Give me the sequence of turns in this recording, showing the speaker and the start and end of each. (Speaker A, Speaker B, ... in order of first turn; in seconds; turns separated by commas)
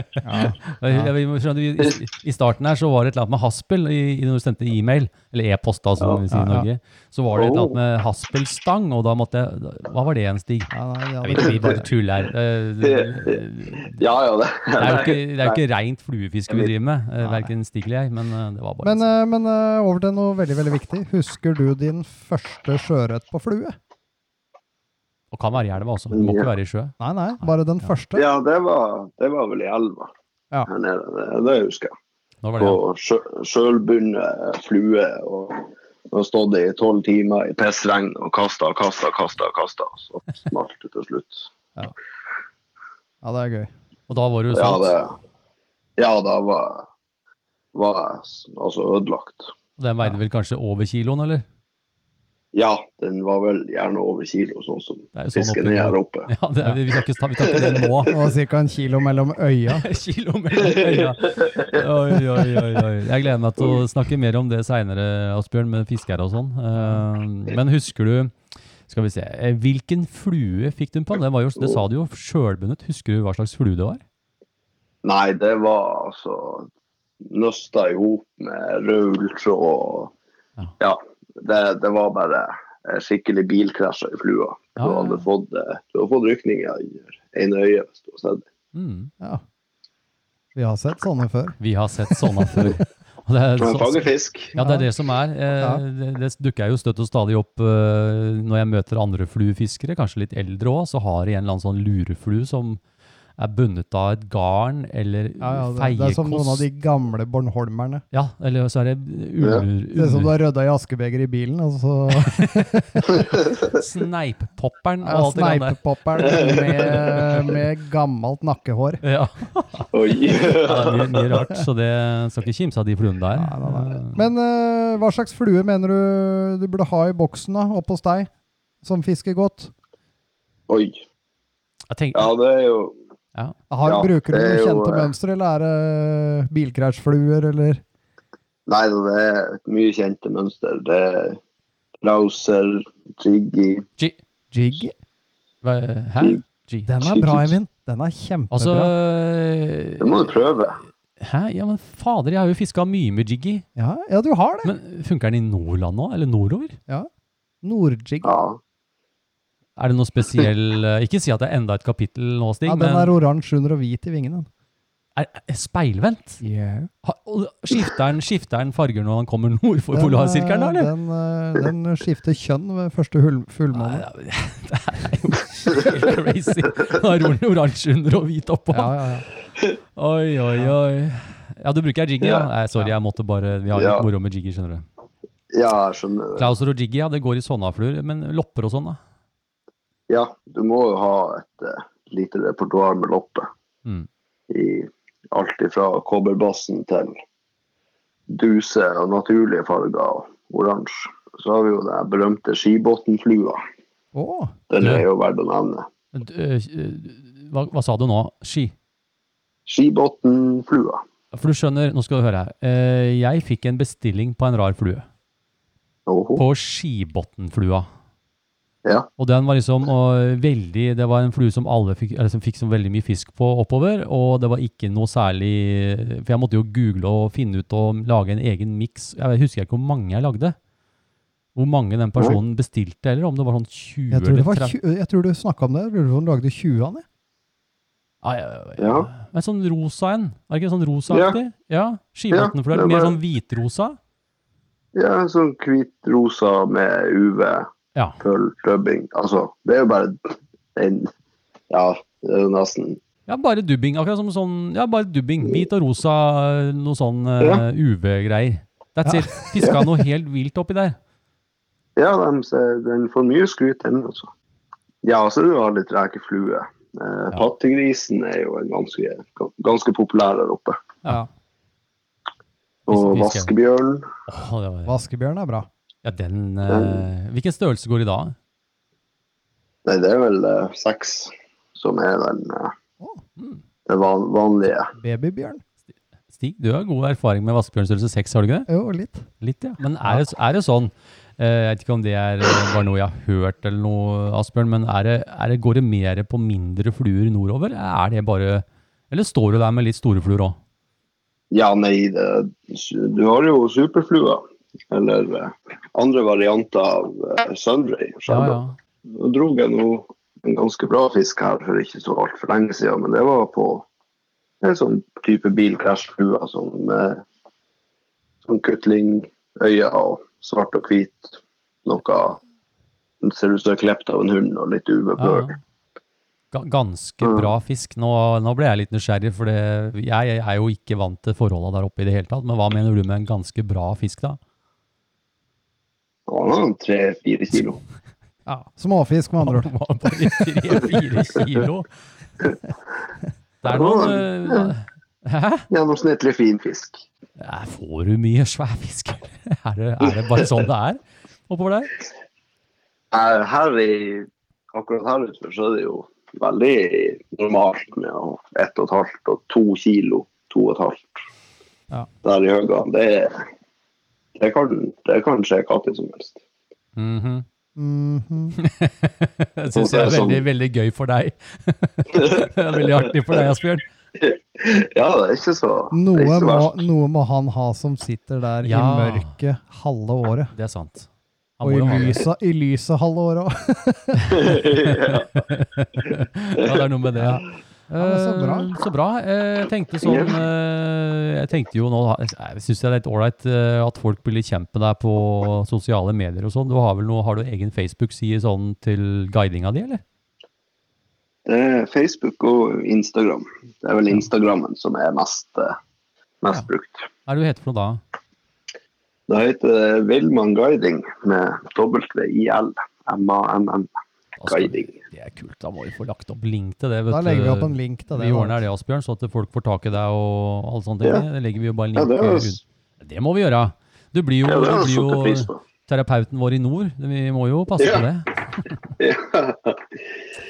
Speaker A: 0.2-1.1, Speaker B: 0.4-14.0, Speaker A: 6.3-6.7, Speaker C: 7.3-7.8, Speaker A: 10.7-11.9, Speaker C: 12.8-15.6, Speaker B: 14.8-19.1, Speaker A: 17.2-17.5, Speaker A: 18.8-23.8, Speaker B: 25.3-26.9, Speaker C: 26.1-26.5, Speaker A: 27.0-28.2, Speaker C: 28.1-30.1, Speaker C: 30.7-31.9, Speaker B: 32.4-32.8, Speaker C: 32.6-41.5, Speaker A: 43.2-43.7, Speaker B: 44.1-45.0, Speaker C: 44.5-45.1, Speaker C: 46.0-46.9, Speaker C: 47.7-49.5, Speaker B: 49.8-51.5, Speaker C: 52.5-56.3, Speaker B: 55.1-58.1, Speaker C: 57.4-57.9, Speaker A: 58.1-59.9, Speaker B: 59.7-68.3, Speaker C: 60.6-61.8, Speaker A: 66.8-67.0, Speaker B: 68.9-74.0, Speaker C: 75.0-76.7, Speaker C: 77.3-80.1, Speaker C: 80.8-88.4, Speaker B: 84.8-85.2, Speaker B: 88.7-89.1, Speaker A: 90.5-91.6, Speaker B: 91.6-102.8, Speaker A: 92.1-92.7, Speaker C: 93.6-94.6, Speaker A: 94.6-94.9, Speaker B: 103.4-106.7, Speaker A: 105.4-108.0, Speaker B: 108.1-110.3, Speaker A: 110.0-113.1, Speaker B: 112.1-115.8, Speaker A: 115.0-119.0, Speaker C: 116.2-117.2, Speaker B: 119.0-124.2, Speaker C: 119.9-121.5, Speaker A: 123.4-128.3, Speaker A: 128.8-129.7, Speaker C: 130.7-131.0, Speaker B: 131.9-132.3, Speaker C: 132.2-132.9, Speaker A: 133.7-137.8, Speaker C: 133.8-135.1, Speaker C: 138.7-141.4, Speaker C: 142.0-143.9, Speaker A: 144.5-144.9, Speaker B: 145.6-146.9, Speaker A: 146.9-148.9, Speaker C: 147.0-147.5, Speaker B: 148.5-150.3, Speaker C: 150.0-150.8, Speaker B: 151.2-153.7, Speaker A: 153.8-154.7, Speaker B: 154.6-156.8, Speaker A: 157.6-158.3, Speaker C: 158.2-158.6, Speaker B: 159.8-163.1, Speaker A: 162.7-164.5, Speaker B: 165.2-166.4, Speaker A: 166.4-166.9, Speaker B: 167.0-170.9, Speaker A: 169.9-174.1, Speaker B: 173.7-179.0, Speaker A: 178.7-179.3, Speaker B: 180.0-184.8, Speaker C: 182.2-182.5, Speaker C: 183.7-184.1, Speaker C: 185.5-186.5, Speaker B: 186.4-189.0, Speaker C: 190.1-193.5, Speaker C: 194.5-197.2, Speaker C: 198.3-203.6, Speaker A: 204.1-204.5, Speaker C: 204.7-205.9, Speaker B: 204.8-205.1, Speaker B: 206.1-208.7, Speaker C: 209.7-211.0, Speaker B: 211.3-215.1, Speaker C: 216.1-216.4, Speaker B: 216.4-217.9, Speaker B: 219.2-230.6, Speaker B: 231.6-234.8, Speaker A: 234.1-237.1, Speaker B: 238.2-244.0, Speaker C: 238.8-239.1, Speaker C: 241.1-241.4, Speaker C: 242.3-243.2, Speaker C: 244.9-247.7, Speaker C: 248.2-251.1, Speaker C: 251.7-253.0, Speaker B: 253.3-261.0, Speaker C: 259.6-259.8, Speaker C: 262.0-264.3, Speaker C: 265.0-270.8, Speaker C: 272.9-274.1, Speaker B: 272.9-273.5, Speaker B: 274.3-274.9, Speaker A: 274.9-275.7, Speaker B: 276.0-278.4, Speaker C: 276.7-277.1, Speaker C: 279.9-282.7, Speaker C: 283.9-284.9, Speaker A: 285.0-285.6, Speaker B: 286.3-288.7, Speaker A: 288.7-289.3, Speaker B: 289.4-300.6, Speaker C: 301.5-308.6, Speaker B: 308.3-308.8, Speaker C: 309.1-313.9, Speaker C: 314.6-317.2, Speaker C: 318.4-322.4, Speaker C: 323.2-325.5, Speaker B: 325.2-325.6, Speaker B: 326.5-334.4, Speaker C: 327.2-327.5, Speaker C: 336.3-337.8, Speaker A: 338.5-339.7, Speaker B: 339.4-341.9, Speaker B: 343.6-345.7, Speaker C: 343.6-344.7, Speaker C: 345.7-347.0, Speaker B: 347.4-351.9, Speaker C: 353.1-361.2, Speaker C: 362.2-363.4, Speaker C: 364.4-366.4, Speaker B: 367.0-367.4, Speaker A: 367.8-368.6, Speaker B: 368.6-373.9, Speaker C: 369.7-370.4, Speaker C: 372.1-373.4, Speaker C: 374.2-376.8, Speaker A: 375.9-380.5, Speaker B: 378.6-379.4, Speaker B: 380.5-382.2, Speaker A: 381.6-384.6, Speaker C: 384.3-385.4, Speaker B: 384.3-400.0, Speaker A: 388.0-388.7, Speaker C: 390.0-390.4, Speaker C: 401.5-405.8, Speaker C: 406.4-407.1, Speaker B: 407.3-408.0, Speaker C: 409.3-413.9, Speaker B: 414.4-428.7, Speaker C: 414.5-415.0, Speaker A: 417.1-418.6, Speaker C: 421.9-422.6, Speaker C: 424.5-425.6, Speaker C: 427.8-428.1, Speaker C: 429.0-429.9